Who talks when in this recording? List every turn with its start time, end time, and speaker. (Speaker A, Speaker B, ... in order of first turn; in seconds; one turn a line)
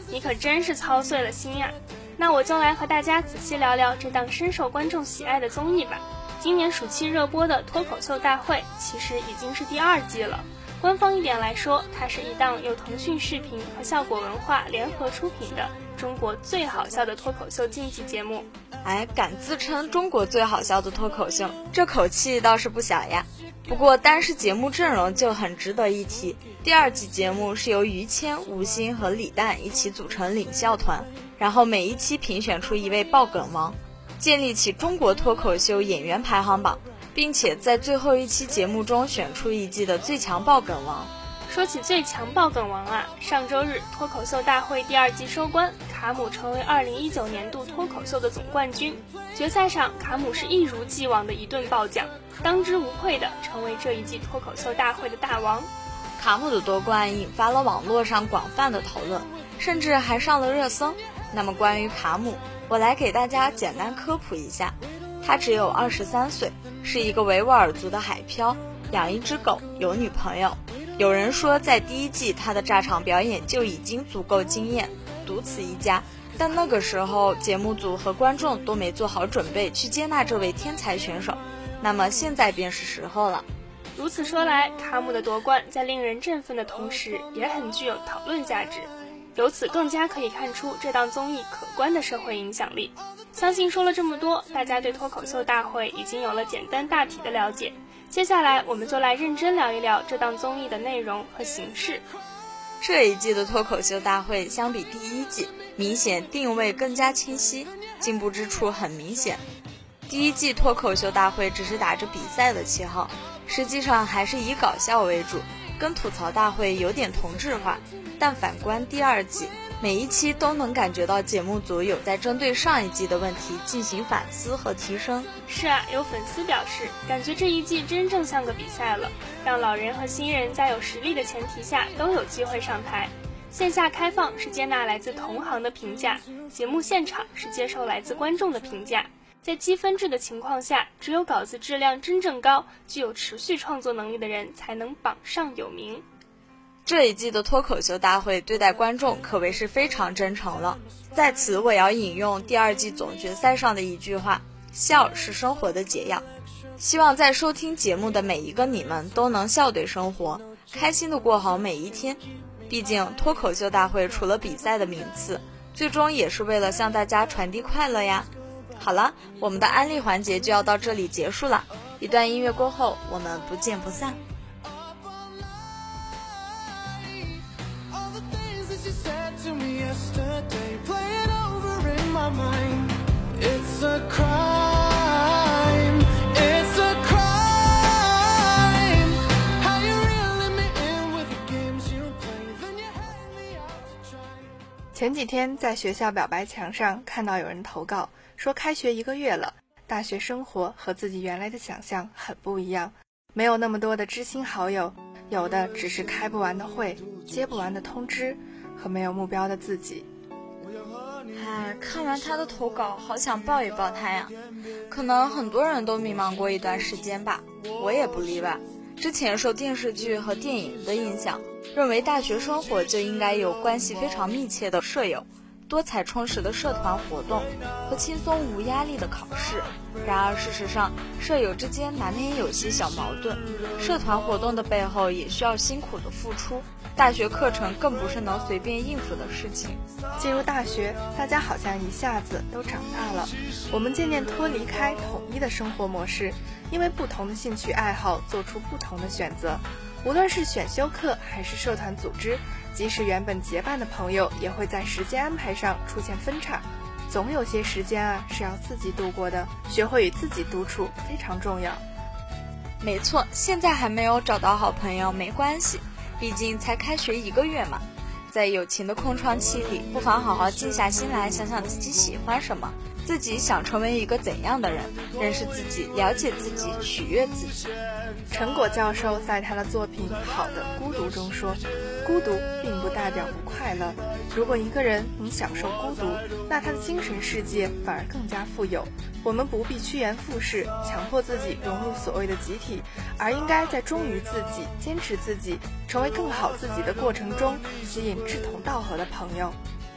Speaker A: 0.1-18.5
Speaker B: 18.8-41.1
Speaker A: 41.5-55.7
Speaker B: 56.2-83.5
Speaker A: 84.0-102.0
Speaker B: 102.8-109.4
Speaker B: 110.1-125.3
Speaker A: 125.5-146.0
Speaker B: 146.9-156.3
Speaker B: 156.8-174.2
Speaker C: 175.0-175.5
Speaker C: 176.5-194.4
Speaker D: 194.9-210.1
Speaker B: 211.3-214.3
Speaker B: 214.9-239.8
Speaker D: 240.2-261.8
Speaker B: 262.8-277.6
Speaker D: 278.3-299.6